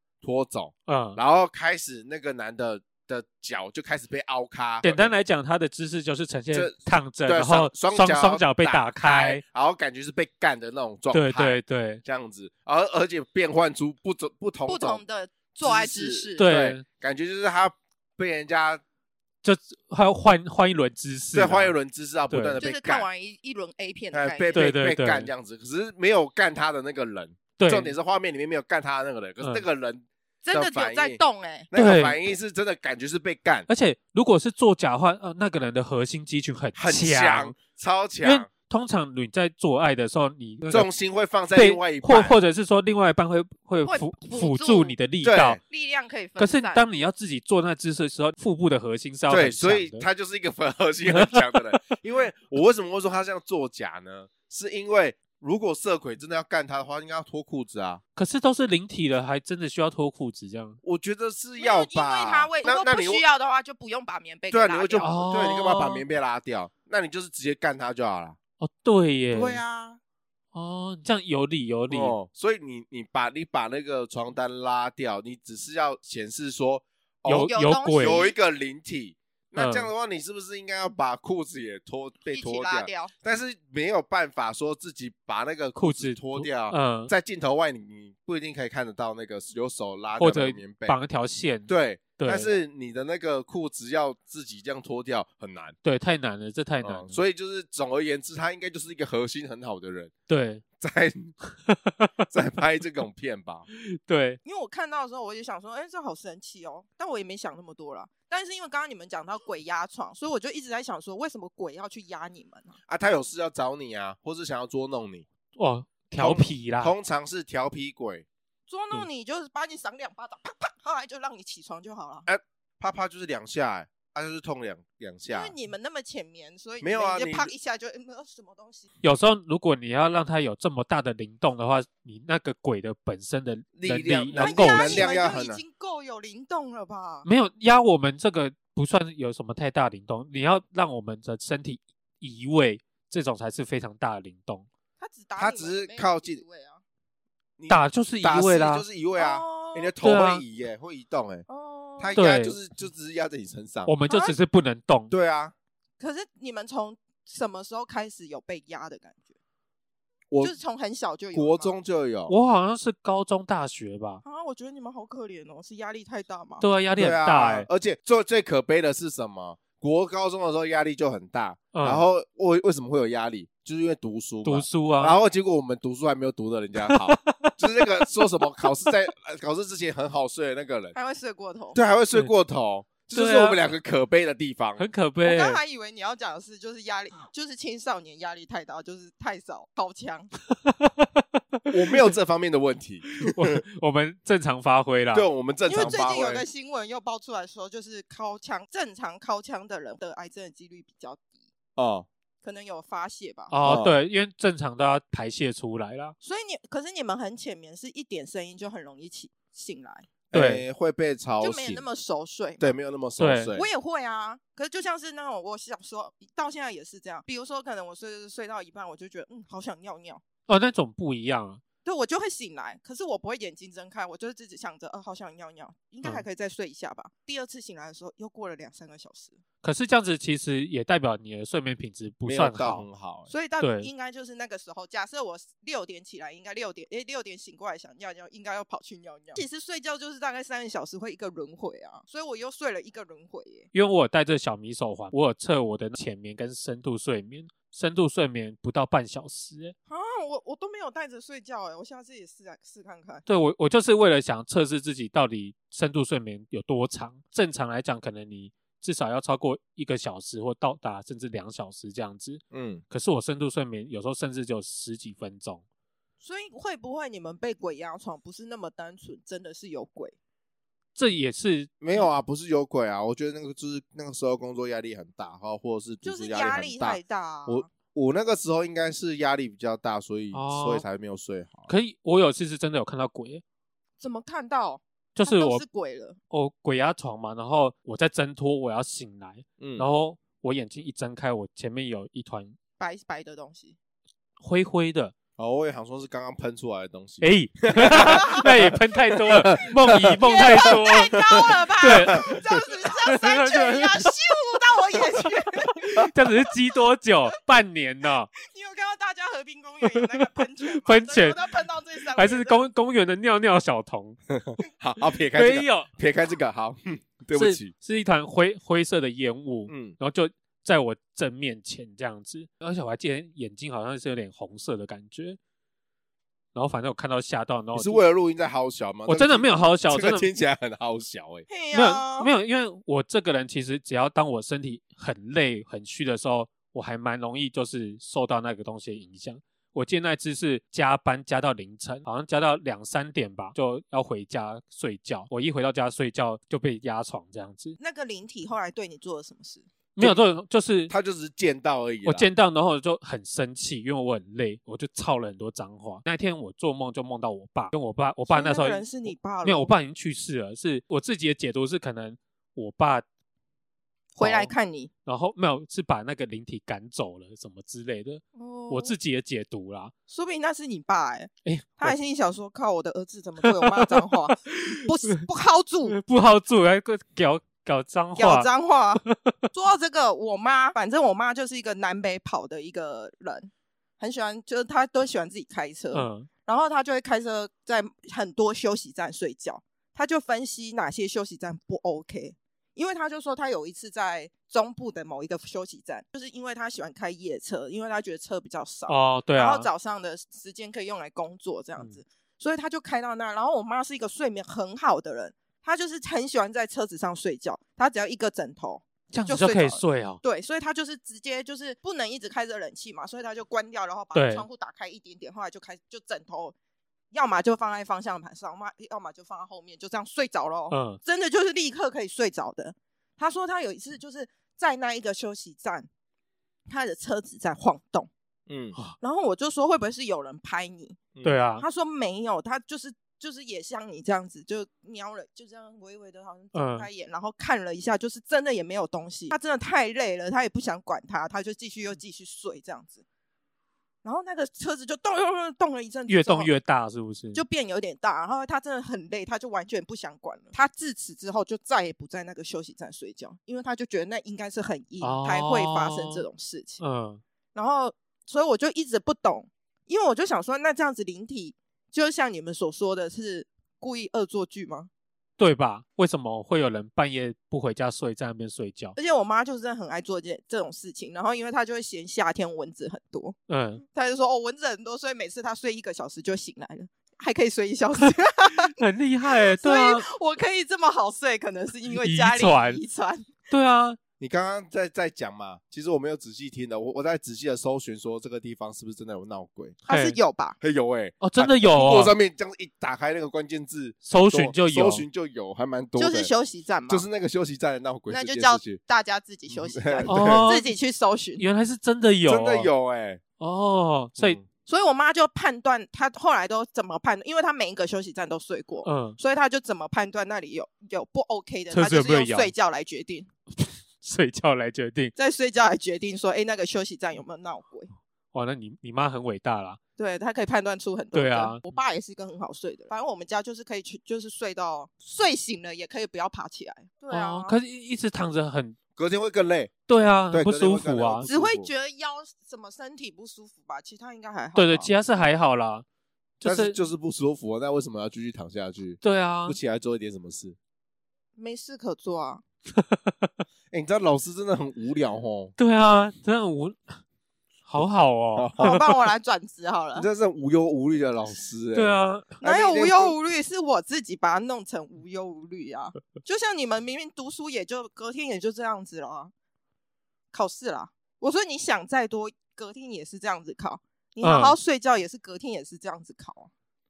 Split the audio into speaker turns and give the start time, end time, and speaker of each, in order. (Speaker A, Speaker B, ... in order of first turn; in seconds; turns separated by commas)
Speaker A: 0.2-5.1, Speaker B: 0.9-1.2, Speaker B: 4.8-9.4, Speaker A: 6.5-15.0, Speaker B: 11.1-12.0, Speaker C: 14.7-16.5, Speaker A: 15.6-18.8, Speaker B: 16.4-16.8, Speaker B: 19.4-21.7, Speaker A: 21.3-23.1, Speaker B: 22.3-22.6, Speaker C: 22.6-24.6, Speaker A: 24.1-33.7, Speaker B: 24.5-25.3, Speaker B: 27.6-27.9, Speaker C: 30.4-31.7, Speaker B: 31.7-32.2, Speaker B: 33.7-37.5, Speaker A: 36.8-38.5, Speaker B: 38.2-40.9, Speaker A: 40.7-42.4, Speaker B: 41.5-45.6, Speaker C: 43.9-45.0, Speaker A: 45.2-45.6, Speaker C: 45.7-46.8, Speaker B: 46.4-50.0, Speaker A: 49.3-58.0, Speaker B: 51.1-51.5, Speaker B: 58.2-60.8, Speaker A: 60.8-63.2, Speaker C: 61.6-65.2, Speaker A: 64.5-68.4, Speaker B: 65.0-66.0, Speaker B: 68.6-69.6, Speaker A: 69.3-70.0, Speaker B: 70.5-72.1, Speaker A: 71.9-91.0, Speaker B: 77.3-78.2, Speaker C: 77.3-78.3, Speaker B: 79.5-79.9, Speaker C: 82.3-83.1, Speaker B: 85.8-87.1, Speaker B: 90.2-92.5, Speaker A: 91.7-95.8, Speaker B: 95.8-97.2, Speaker A: 96.8-100.1, Speaker B: 100.3-100.6, Speaker A: 100.8-101.3, Speaker B: 101.5-102.3, Speaker A: 102.3-103.7, Speaker B: 103.9-104.4, Speaker C: 104.4-112.8, Speaker A: 112.9-115.3, Speaker B: 115.6-116.9, Speaker A: 116.2-118.2, Speaker C: 118.7-122.3, Speaker A: 122.3-125.5, Speaker C: 125.3-128.9, Speaker A: 126.8-127.5, Speaker B: 129.0-135.1, Speaker A: 133.8-135.6, Speaker C: 134.4-137.3, Speaker B: 137.2-144.7, Speaker C: 145.0-146.8, Speaker A: 145.4-146.4, Speaker A: 147.6-151.5, Speaker B: 147.7-148.8, Speaker C: 149.2-149.9, Speaker B: 150.0-150.4, Speaker C: 151.5-152.2, Speaker A: 152.0-153.9, Speaker B: 152.2-152.6, Speaker B: 153.9-155.1, Speaker C: 154.1-154.4, Speaker A: 155.1-155.5, Speaker C: 156.0-159.2, Speaker C: 160.4-161.8, Speaker A: 161.3-162.3, Speaker B: 162.3-164.2, Speaker C: 164.2-166.7, Speaker B: 166.6-167.7, Speaker A: 167.0-180.9, Speaker B: 171.7-172.0, Speaker B: 174.4-175.2, Speaker B: 176.8-178.0, Speaker C: 180.9-181.8, Speaker A: 181.8-184.9, Speaker B: 183.1-183.6, Speaker B: 184.8-185.6, Speaker C: 185.2-190.3, Speaker B: 190.6-192.1, Speaker A: 191.7-193.6, Speaker B: 193.2-195.3, Speaker A: 195.1-196.4, Speaker C: 195.7-201.3, Speaker A: 201.8-202.1, Speaker C: 202.4-203.6, Speaker B: 203.5-206.2, Speaker A: 203.6-204.0, Speaker C: 206.2-210.1, Speaker A: 210.3-211.8, Speaker B: 210.3-210.6, Speaker C: 211.4-212.7, Speaker A: 212.6-213.7, Speaker B: 213.2-213.5, Speaker C: 213.5-220.2, Speaker B: 220.5-221.6, Speaker C: 221.8-229.4, Speaker B: 229.6-232.8, Speaker A: 232.3-233.3, Speaker C: 233.3-243.7, Speaker B: 233.6-233.9, Speaker B: 243.7-249.8, Speaker C: 249.9-253.2, Speaker B: 253.3-265.6, Speaker A: 262.5-262.8, Speaker C: 266.2-270.1, Speaker B: 270.9-271.8, Speaker A: 271.8-281.7, Speaker C: 276.0-277.7, Speaker B: 280.3-280.9, Speaker B: 281.7-283.4, Speaker C: 284.0-286.2, Speaker B: 285.1-285.6, Speaker B: 286.3-292.6, Speaker A: 289.6-289.9, Speaker C: 292.8-293.8, Speaker B: 294.4-295.1, Speaker A: 295.4-300.7, Speaker B: 297.2-302.4, Speaker C: 297.9-298.4, Speaker C: 300.2-306.3, Speaker B: 303.1-304.1, Speaker B: 305.9-308.3, Speaker C: 308.4-312.7, Speaker B: 309.9-311.5, Speaker B: 312.1-314.2, Speaker A: 314.4-317.7, Speaker B: 315.3-315.9, Speaker B: 317.4-325.4, Speaker A: 319.7-320.0, Speaker B: 326.6-328.0, Speaker A: 327.7-331.5, Speaker B: 329.1-330.3, Speaker C: 331.5-332.3, Speaker B: 331.7-347.8, Speaker C: 347.8-349.7, Speaker B: 350.0-350.9, Speaker A: 350.9-352.3, Speaker B: 352.1-363.1, Speaker C: 358.3-359.7, Speaker C: 364.2-364.9, Speaker B: 364.2-364.5, Speaker B: 365.1-369.9, Speaker C: 368.4-368.9, Speaker C: 370.1-376.0, Speaker B: 371.4-372.0, Speaker B: 373.4-374.8, Speaker B: 375.9-378.5, Speaker C: 378.2-416.6, Speaker B: 379.0-379.3, Speaker B: 385.9-386.3, Speaker B: 398.9-399.7, Speaker B: 409.1-410.2, Speaker B: 414.1-414.5, Speaker C: 417.1-425.9, Speaker B: 420.7-421.0, Speaker C: 426.7-428.1, Speaker A: 428.5-428.8, Speaker C: 429.0-431.0, Speaker B: 431.2-431.6, Speaker C: 431.6-443.0, Speaker B: 436.5-436.9, Speaker C: 444.0-446.5, Speaker B: 446.1-447.4, Speaker C: 447.3-456.8, Speaker B: 455.0-456.2, Speaker B: 456.8-457.2, Speaker C: 457.6-464.9, Speaker B: 465.4-469.0, Speaker C: 469.0-473.4, Speaker B: 473.5-473.8, Speaker C: 473.9-483.3, Speaker B: 478.7-480.1, Speaker B: 482.0-482.8, Speaker B: 483.5-484.0, Speaker A: 484.2-489.8, Speaker C: 489.9-490.6, Speaker B: 489.9-490.2, Speaker A: 490.6-496.3, Speaker B: 491.2-492.1, Speaker B: 494.1-495.1, Speaker C: 496.0-497.1, Speaker A: 496.9-498.8, Speaker C: 498.1-501.4, Speaker A: 499.5-500.5, Speaker B: 500.1-500.7, Speaker B: 501.4-502.7, Speaker A: 502.3-503.2, Speaker B: 503.4-504.4, Speaker A: 504.2-504.4, Speaker C: 504.7-513.3, Speaker B: 508.9-509.2, Speaker B: 511.7-512.5, Speaker B: 513.6-515.1, Speaker C: 515.2-517.9, Speaker B: 518.3-519.8, Speaker C: 520.0-527.6, Speaker B: 521.1-521.6, Speaker B: 527.1-528.8, Speaker A: 529.0-529.8, Speaker B: 529.9-531.3, Speaker A: 530.3-531.7, Speaker C: 531.3-534.9, Speaker B: 534.6-535.9, Speaker B: 536.4-536.8, Speaker A: 536.4-540.6, Speaker B: 539.0-539.6, Speaker C: 541.4-542.4, Speaker B: 542.8-543.3, Speaker A: 543.7-545.5, Speaker B: 545.6-547.0, Speaker B: 547.7-548.5, Speaker A: 548.4-548.8, Speaker C: 548.6-550.1, Speaker A: 550.0-553.1, Speaker B: 551.8-552.4, Speaker C: 552.4-559.3, Speaker C: 560.3-566.5, Speaker B: 564.2-564.6